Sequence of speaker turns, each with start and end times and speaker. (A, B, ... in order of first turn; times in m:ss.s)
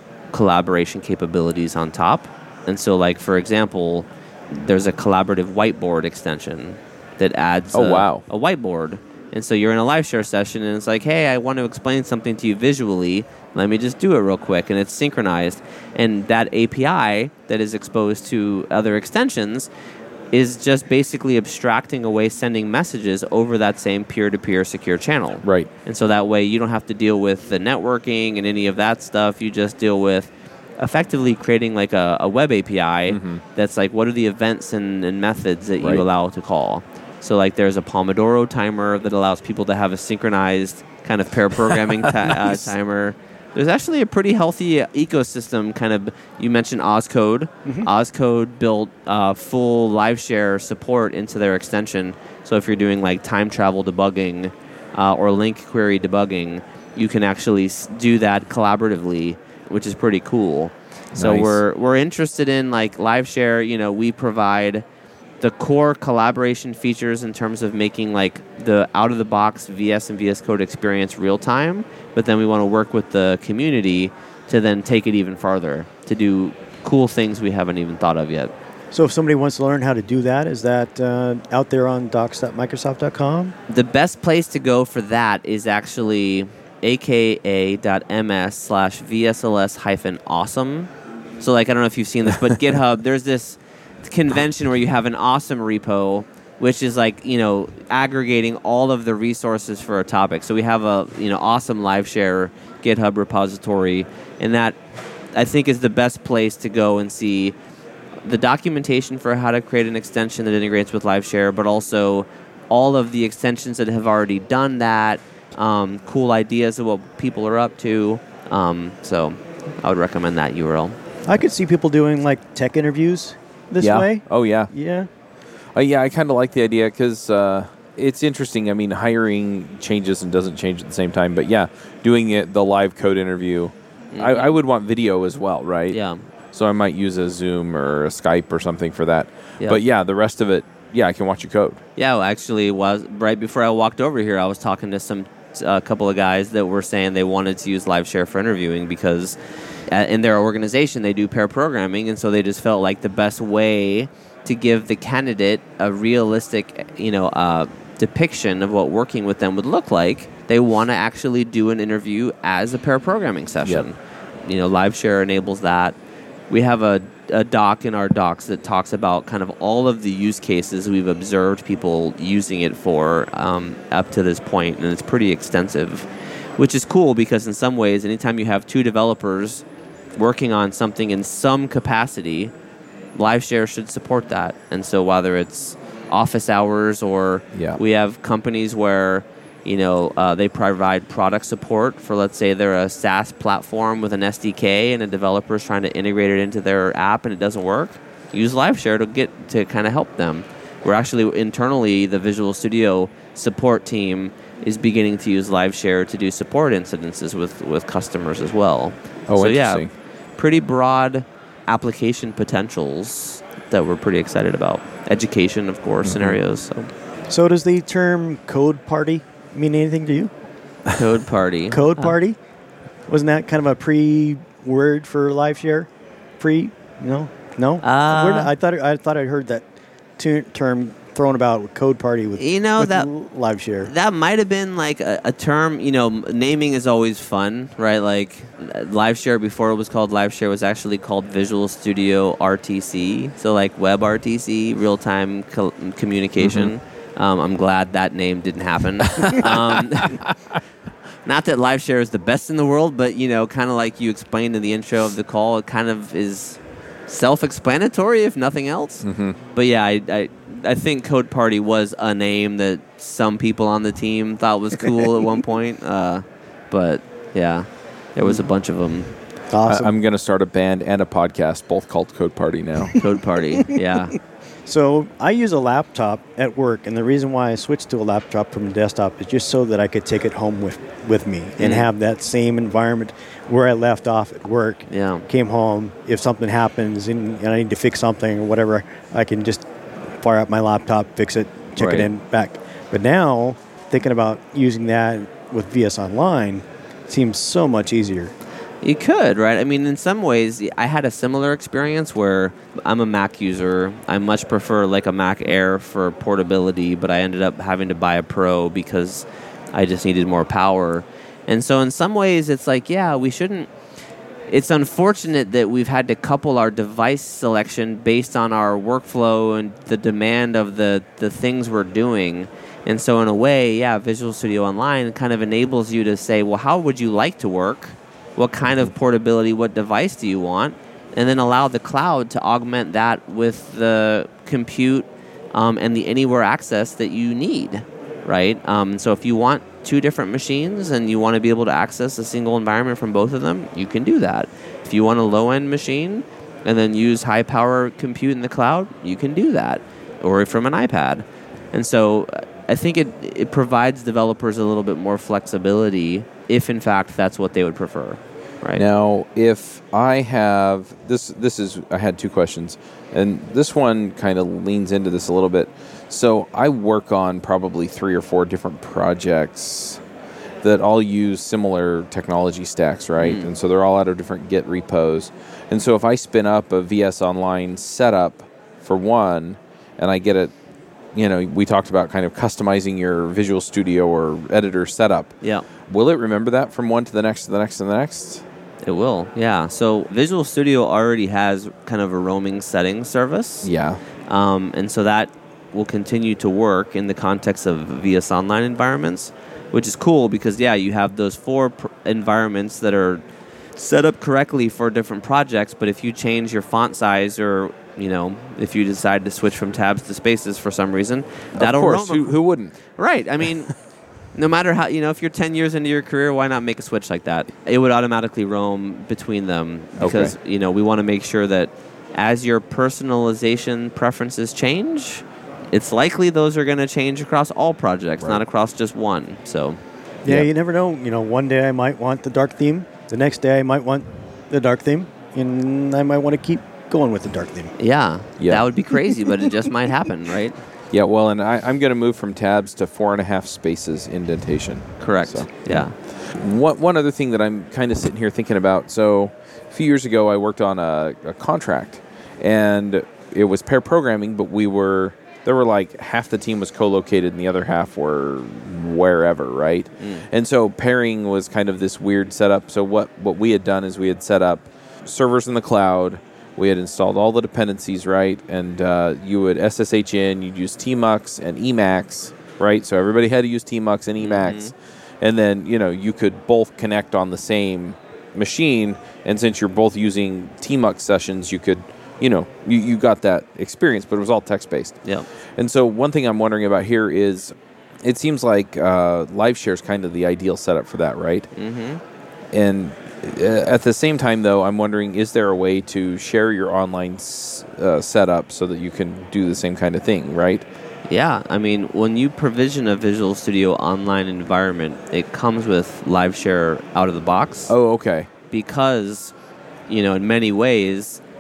0:00.3-0:19.7 A
0:07.7-0:08.2 B
0:20.3-1:04.8 A
0:25.4-0:25.7 B
0:33.1-0:33.4 B
1:01.2-1:01.6 B
1:05.4-1:18.5 A
1:18.9-1:23.5 C
1:23.7-1:44.8 A
1:45.4-1:47.6 A
1:48.2-2:01.0 A
2:01.3-2:05.1 C
2:03.8-2:04.7 B
2:05.8-2:16.0 B
2:14.1-2:14.5 A
2:15.9-2:16.2 A
2:16.5-2:21.8 B
2:22.0-2:29.4 A
2:29.9-2:46.0 A
2:46.5-2:56.1 A
2:56.6-2:59.6 A
3:00.2-3:02.5 A
3:03.2-3:29.8 A
3:07.5-3:07.8 B
3:29.3-3:29.9 B
3:30.4-3:36.9 A
3:36.0-3:36.4 B
3:37.3-3:40.3 C
3:40.9-3:42.1 A
3:41.7-3:42.4 C
3:43.1-3:49.7 C
3:47.8-3:48.5 A
3:50.2-3:53.9 C
3:52.4-3:53.1 A
3:53.8-4:10.2 A
4:06.4-4:06.7 B
4:09.2-4:10.3 B
4:11.2-4:29.1 A
4:19.0-4:19.4 B
4:29.5-4:29.9 C
4:29.6-4:33.0 B
4:33.0-4:34.2 A
4:34.7-4:58.3 C
4:41.6-4:41.9 A
4:44.9-4:45.3 A
4:51.8-4:52.1 B
4:58.8-5:13.7 A
5:14.5-5:58.8 A
5:58.8-6:10.0 B
6:10.6-6:20.5 B
6:13.2-6:13.5 A
6:21.2-6:25.4 B
6:25.9-6:28.4 B
6:28.9-6:33.7 A
6:33.6-6:34.0 B
6:34.3-6:43.2 A
6:43.8-6:52.4 A
6:51.6-6:52.8 B
6:53.0-6:53.7 A
6:54.4-7:09.8 A
7:00.0-7:00.3 B
7:10.2-7:17.7 C
7:17.8-7:20.6 A
7:18.4-7:18.7 B
7:20.9-8:05.0 B
7:25.0-7:26.0 A
7:40.0-7:40.2 A
7:54.2-7:54.7 A
8:05.6-8:11.5 B
8:11.6-8:12.0 A
8:12.5-8:20.6 B
8:21.1-8:27.7 A
8:27.7-8:28.3 B
8:28.5-8:29.3 A
8:29.9-8:31.2 A